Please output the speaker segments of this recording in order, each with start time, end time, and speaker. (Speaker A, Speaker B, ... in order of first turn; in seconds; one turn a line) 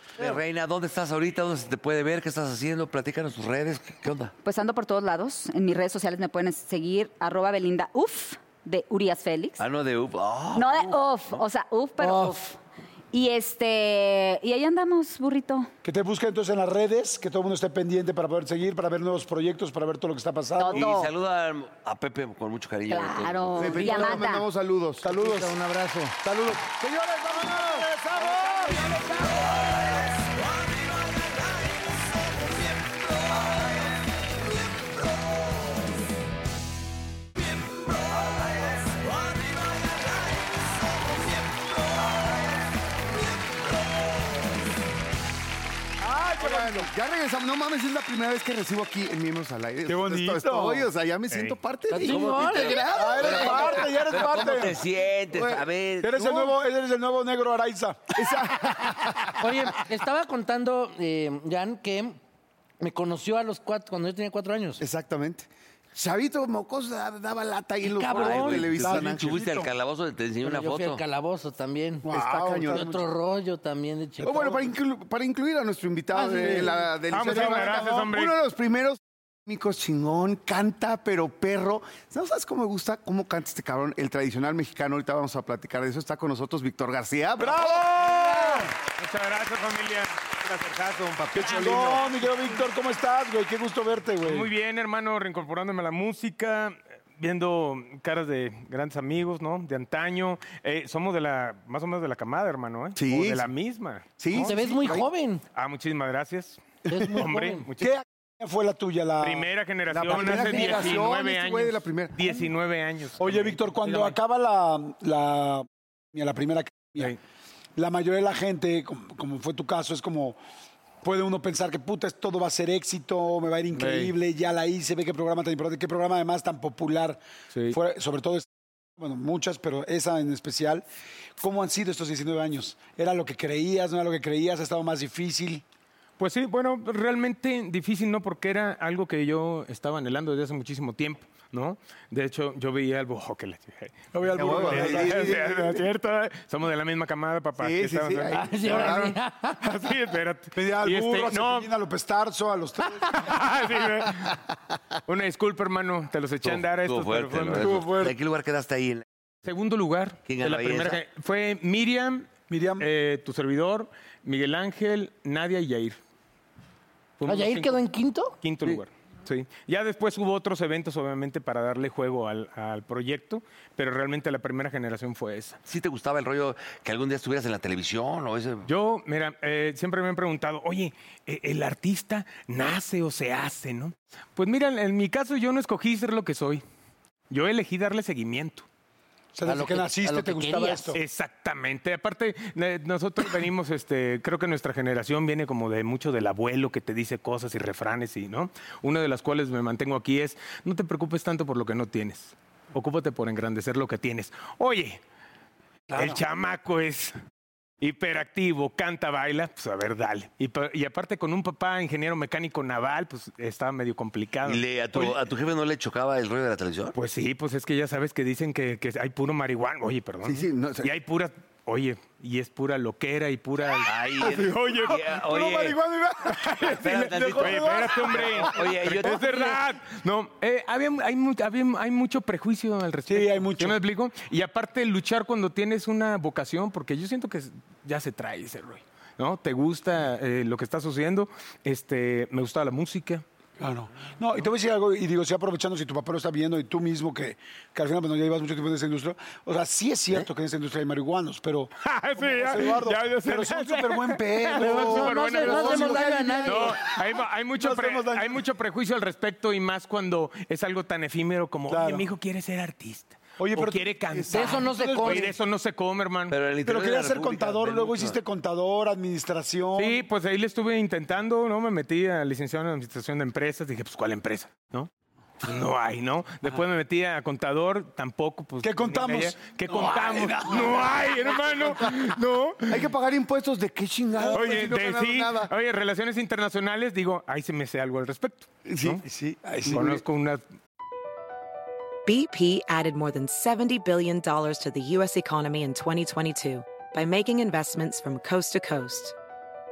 Speaker A: 0.2-4.3
Speaker B: 4.4-9.6
Speaker A: 9.6-11.4
Speaker B: 10.6-12.6
Speaker C: 12.0-12.4
Speaker B: 13.1-15.7
Speaker D: 15.8-20.9
Speaker B: 20.6-21.1
Speaker A: 20.7-24.0
Speaker B: 22.9-24.4
Speaker E: 23.6-25.2
Speaker D: 25.0-29.6
Speaker C: 25.1-26.1
Speaker D: 46.0-46.9
Speaker E: 46.4-54.2
Speaker D: 49.9-50.9
Speaker F: 51.3-51.6
Speaker C: 51.9-52.9
Speaker A: 52.1-56.3
Speaker D: 52.9-54.8
Speaker E: 55.3-55.7
Speaker D: 56.0-58.3
Speaker E: 58.2-59.4
Speaker C: 59.4-62.2
Speaker C: 62.8-64.8
Speaker E: 64.8-69.5
Speaker C: 67.8-68.8
Speaker A: 68.1-71.0
Speaker D: 68.8-69.7
Speaker C: 70.4-72.1
Speaker D: 72.0-73.0
Speaker E: 72.1-72.9
Speaker C: 72.7-74.6
Speaker E: 74.2-88.1
Speaker D: 76.1-78.1
Speaker F: 77.1-78.3
Speaker D: 87.4-88.7
Speaker F: 88.1-92.0
Speaker E: 91.3-92.0
Speaker D: 91.3-94.5
Speaker F: 94.2-104.5
Speaker E: 103.0-103.5
Speaker E: 104.2-105.1
Speaker C: 104.3-105.4
Speaker F: 105.5-106.6
Speaker C: 106.9-107.7
Speaker F: 107.2-108.0
Speaker D: 107.8-111.0
Speaker F: 109.2-114.2
Speaker E: 109.9-112.2
Speaker D: 113.2-117.2
Speaker D: 117.8-120.4
Speaker D: 121.0-130.8
Speaker F: 123.7-124.1
Speaker D: 131.4-135.6
Speaker F: 136.2-149.0
Speaker D: 144.1-145.7
Speaker E: 144.4-145.8
Speaker E: 147.6-149.2
Speaker C: 148.3-149.6
Speaker F: 149.6-151.7
Speaker D: 150.6-153.4
Speaker F: 153.0-154.4
Speaker F: 155.1-157.9
Speaker A: 156.4-159.0
Speaker D: 157.5-158.2
Speaker F: 159.4-166.0
Speaker A: 160.3-161.0
Speaker D: 162.5-162.9
Speaker F: 167.2-167.8
Speaker C: 167.3-168.4
Speaker F: 168.4-175.6
Speaker A: 175.7-178.7
Speaker F: 178.7-186.6
Speaker F: 187.3-188.7
Speaker D: 189.3-191.0
Speaker C: 189.4-190.9
Speaker F: 190.9-205.0
Speaker D: 205.9-206.2
Speaker F: 205.9-207.2
Speaker F: 207.8-215.2
Speaker A: 214.4-216.9
Speaker F: 216.9-225.0
Speaker E: 220.2-220.9
Speaker A: 223.8-225.8
Speaker D: 225.1-229.2
Speaker F: 226.3-243.2
Speaker A: 226.6-229.6
Speaker D: 233.1-233.8
Speaker D: 243.6-258.4
Speaker F: 251.8-266.4
Speaker C: 254.6-256.8
Speaker D: 261.7-262.1
Speaker D: 263.4-265.4
Speaker C: 264.3-265.3
Speaker A: 266.3-268.2
Speaker D: 266.6-270.0
Speaker F: 269.8-274.9
Speaker F: 275.4-282.8
Speaker D: 278.6-282.1
Speaker E: 282.7-285.5
Speaker D: 284.3-284.6
Speaker F: 284.3-289.0
Speaker D: 288.8-290.0
Speaker F: 289.7-290.4
Speaker G: 292.1-299.2